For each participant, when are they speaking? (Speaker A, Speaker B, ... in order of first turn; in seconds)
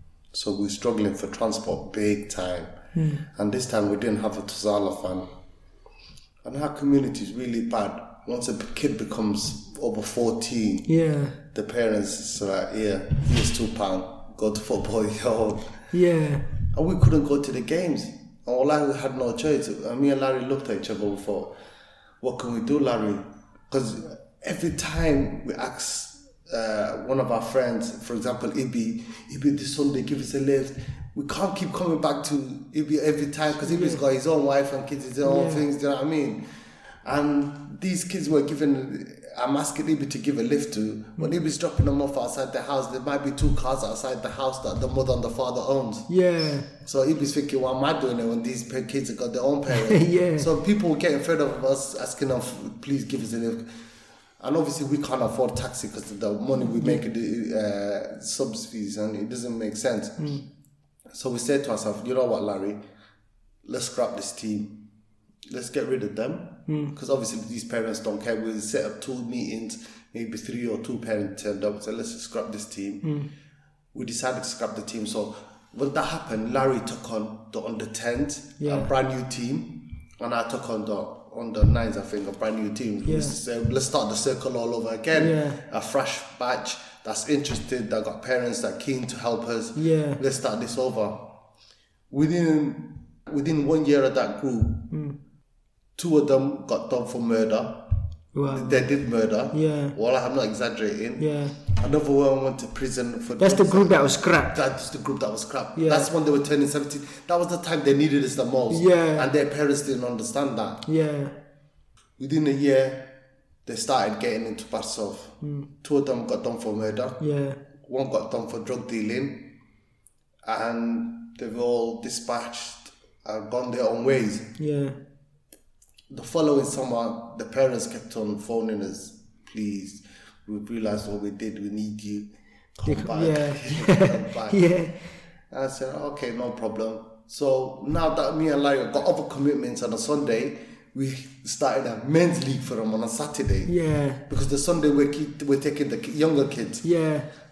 Speaker A: 0.3-2.7, 3.2-5.3, 6.5-10.9, 11.4-15.7, 16.7-21.5, 22.2-36.4, 37.0-46.1, 46.8-53.7, 54.4-60.3, 61.1-62.8, 63.6-64.9, 65.5-73.1, 73.9-91.3, 92.1-94.9, 96.0-98.0, 98.5-110.9, 112.2-113.1, 113.7-117.2, 117.8-119.6, 120.5-124.6, 126.1-134.7, 135.5-143.7, 144.3-146.9
Speaker B: 3.0-3.2, 10.9-11.4, 15.9-16.4, 33.6-34.0, 35.2-35.6, 46.1-46.7, 49.7-50.5, 56.7-57.0, 60.2-60.4, 66.7-66.9, 78.6-78.9, 83.0-83.4, 85.1-85.6, 89.8-90.2, 94.9-95.2, 98.3-98.9, 99.5-100.0, 101.2-101.6, 103.4-104.5, 105.8-106.1, 108.7-109.3, 110.9-111.4, 115.4-115.7, 117.2-117.6, 124.6-125.0, 132.9-134.9, 143.7-144.2, 146.8-147.3